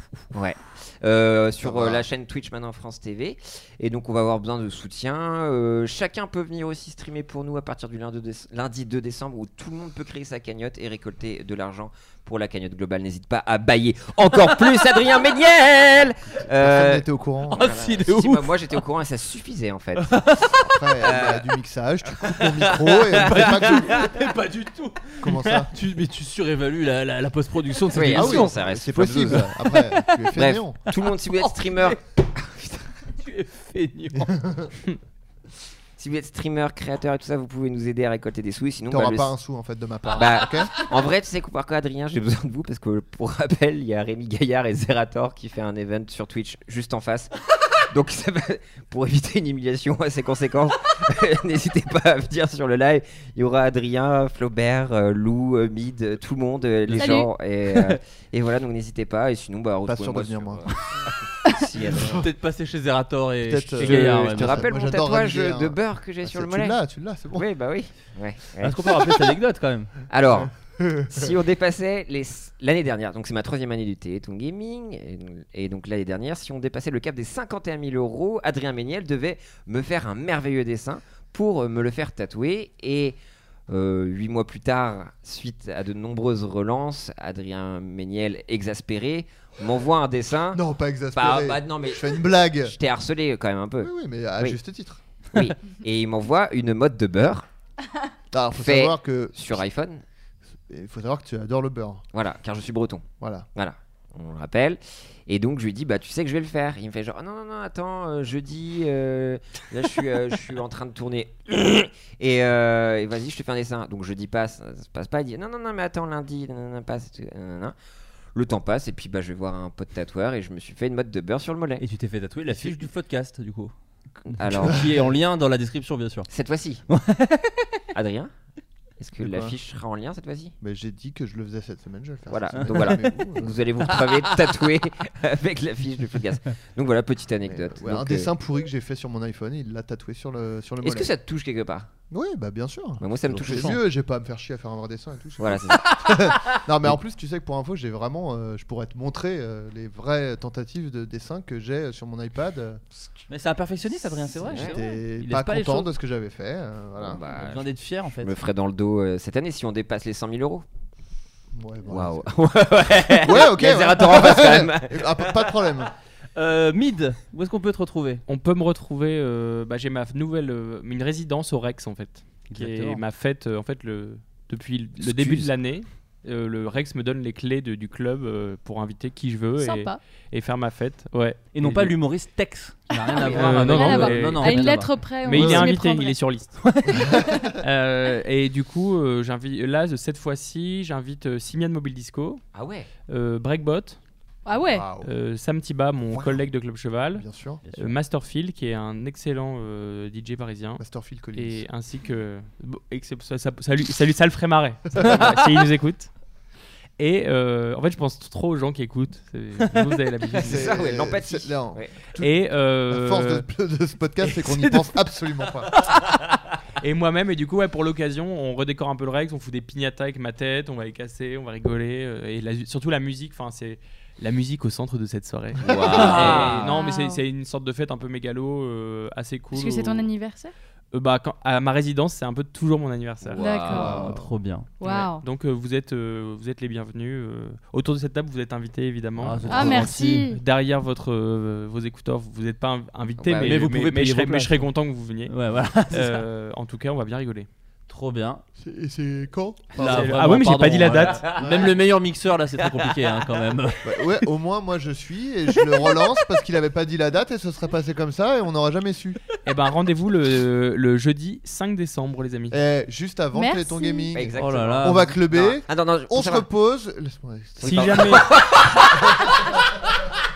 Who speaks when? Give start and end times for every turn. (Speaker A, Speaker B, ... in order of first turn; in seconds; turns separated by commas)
Speaker A: 0.3-20.4, Speaker B: 1.6-2.0, Speaker B: 16.5-17.7, Speaker C: 17.5-18.6, Speaker C: 20.0-20.7, Speaker B: 20.7-24.0, Speaker A: 21.0-21.5, Speaker A: 22.2-24.1, Speaker C: 23.1-30.4, Speaker B: 25.2-25.7, Speaker A: 27.9-29.4, Speaker B: 28.1-30.8, Speaker A: 30.3-33.0, Speaker C: 30.9-32.0, Speaker C: 33.2-34.4, Speaker B: 34.1-34.7, Speaker A: 36.0-39.3, Speaker B: 38.9-40.7, Speaker A: 40.1-47.3, Speaker A: 47.9-60.7, Speaker C: 56.9-57.1, Speaker D: 56.9-57.3, Speaker C: 57.7-58.0, Speaker B: 59.8-60.7, Speaker A: 61.5-62.2, Speaker B: 61.7-62.2, Speaker C: 62.0-64.7, Speaker B: 63.4-67.5, Speaker A: 63.8-66.8, Speaker A: 67.3-69.1, Speaker C: 68.6-69.9, Speaker A: 70.1-70.5, Speaker B: 70.4-71.3, Speaker A: 71.1-83.2, Speaker A: 83.7-90.6, Speaker B: 90.5-92.7, Speaker A: 91.1-94.6, Speaker B: 93.8-95.0, Speaker A: 95.3-97.5, Speaker B: 98.3-99.6, Speaker A: 98.6-100.0, Speaker B: 100.7-102.0, Speaker A: 102.1-117.7, Speaker B: 103.2-103.5, Speaker A: 118.3-121.8, Speaker C: 121.8-123.7, Speaker A: 122.5-122.8, Speaker A: 124.3-125.0, Speaker C: 124.4-126.3, Speaker A: 126.3-126.8, Speaker C: 126.9-127.9, Speaker A: 127.9-128.3, Speaker A: 129.0-130.5, Speaker B: 129.2-129.6, Speaker B: 130.6-133.6, Speaker A: 132.3-138.3, Speaker C: 132.5-133.2, Speaker C: 134.0-134.4, Speaker B: 137.5-141.1, Speaker A: 140.8-141.9, Speaker B: 142.1-152.9, Speaker A: 143.0-143.8, Speaker C: 143.3-143.8, Speaker A: 145.4-146.6, Speaker C: 153.3-155.9, Speaker A: 154.4-154.8, Speaker B: 154.4-157.2, Speaker A: 157.0-160.6, Speaker C: 157.3-158.3, Speaker B: 161.5-162.3, Speaker A: 161.9-165.5, Speaker B: 163.1-165.9, Speaker C: 166.4-168.2, Speaker E: 168.3-181.9, Speaker C: 172.5-173.0, Speaker A: 175.0-175.5, Speaker D: 179.6-180.0, Speaker C: 181.5-185.7, Speaker D: 182.9-186.2, Speaker E: 183.3-186.5, Speaker C: 186.6-187.1, Speaker D: 187.1-187.5, Speaker E: 187.6-192.4, Speaker A: 192.5-192.9, Speaker E: 193.1-194.0, Speaker D: 194.4-194.8, Speaker B: 194.7-195.1, Speaker E: 195.0-197.2, Speaker B: 196.1-196.4, Speaker B: 197.1-197.6, Speaker C: 197.6-197.9, Speaker E: 197.8-200.8, Speaker B: 200.8-201.7, Speaker E: 201.3-206.1, Speaker E: 207.0-210.8, Speaker A: 210.3-211.9, Speaker B: 210.4-212.3, Speaker E: 212.2-213.4, Speaker B: 212.9-215.7, Speaker E: 214.2-214.8, Speaker E: 216.8-230.1, Speaker A: 225.6-226.6, Speaker C: 225.7-226.7, Speaker D: 226.1-227.2, Speaker D: 229.5-230.5, Speaker E: 230.9-233.4, Speaker A: 233.2-234.0, Speaker D: 233.4-234.0, Speaker C: 233.6-234.7, Speaker B: 233.7-234.3, Speaker D: 234.8-235.2, Speaker E: 234.8-245.3, Speaker C: 239.2-240.3, Speaker D: 239.5-240.4, Speaker A: 243.2-243.7, Speaker C: 243.4-244.7, Speaker C: 245.2-246.2, Speaker E: 245.9-247.5, Speaker C: 247.9-248.4, Speaker B: 248.6-250.2, Speaker C: 249.7-253.8, Speaker E: 249.8-251.2, Speaker A: 251.1-251.6, Speaker B: 251.3-251.8, Speaker B: 253.8-259.2, Speaker E: 259.4-262.6, Speaker B: 262.5-268.2, Speaker D: 263.3-264.1, Speaker A: 264.1-266.4, Speaker C: 264.4-265.2, Speaker C: 267.6-268.4, Speaker A: 267.6-269.7